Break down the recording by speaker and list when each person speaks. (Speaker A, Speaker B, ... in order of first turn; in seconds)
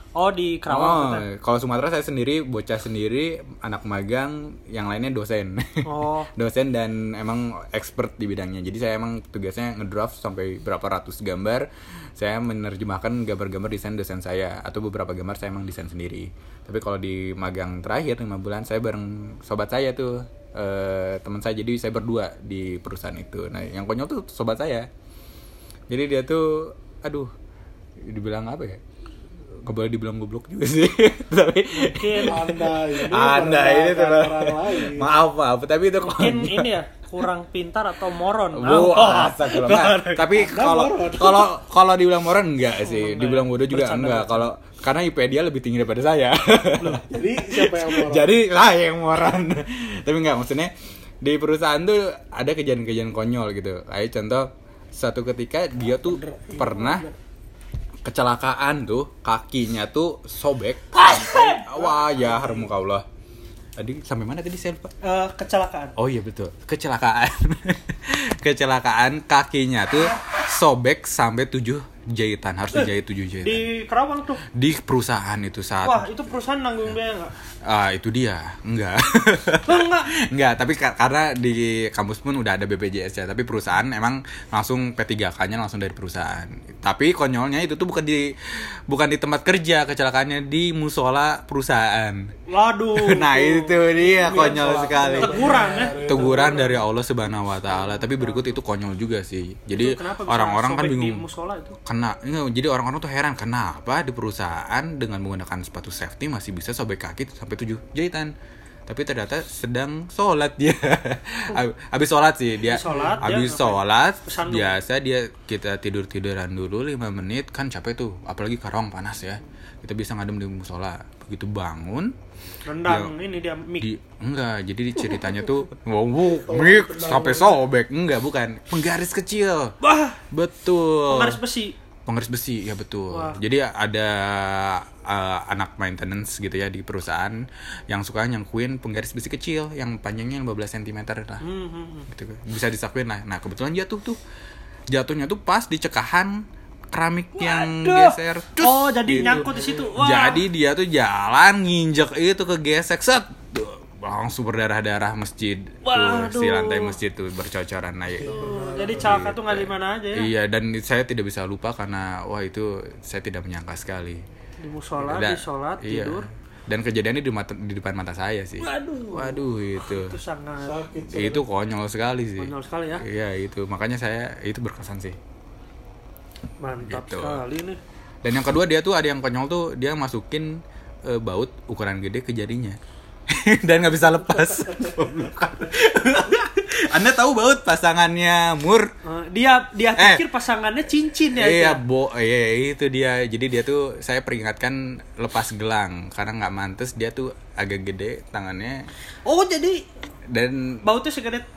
Speaker A: 0.1-1.2, 5.8-6.3, 31.7-32.6, 36.0-40.3, 42.8-44.5, 60.9-61.6, 65.0-65.9, 73.4-74.4, 75.8-77.3, 79.7-80.1, 92.5-96.3, 97.7-98.5, 99.7-101.8, 112.6-114.8, 122.6-123.9, 129.8-130.2, 131.1-131.7, 133.1-133.4, 141.4-142.1, 147.4-150.4, 155.8-157.0, 158.3-160.3, 164.6-166.2, 168.6-170.8, 172.4-173.0, 176.6-177.8, 189.0-191.8, 199.2-199.8, 200.8-201.4
Speaker B: 0.7-24.9, 25.9-27.3, 28.1-28.8, 29.6-36.7, 38.5-57.0, 58.0-63.0, 63.8-64.9, 66.0-73.6, 74.5-76.1, 77.6-88.3, 88.9-92.3, 92.9-101.2, 101.8-108.3, 108.9-122.1, 122.8-123.1, 123.8-129.8, 130.3-131.4, 132.1-141.4, 142.1-144.2, 144.9-164.2, 165.0-170.2, 171.1-175.2, 176.8-177.4, 178.2-182.8, 183.3-188.9, 190.0-190.2, 191.3-198.8, 200.3-200.8
Speaker C: 32.3-35.1, 40.3-41.5, 46.8-48.3, 56.0-57.1, 61.5-62.7, 94.0-96.8, 112.9-113.2, 126.4-127.6, 149.2-149.8, 158.1-159.2, 170.6-171.4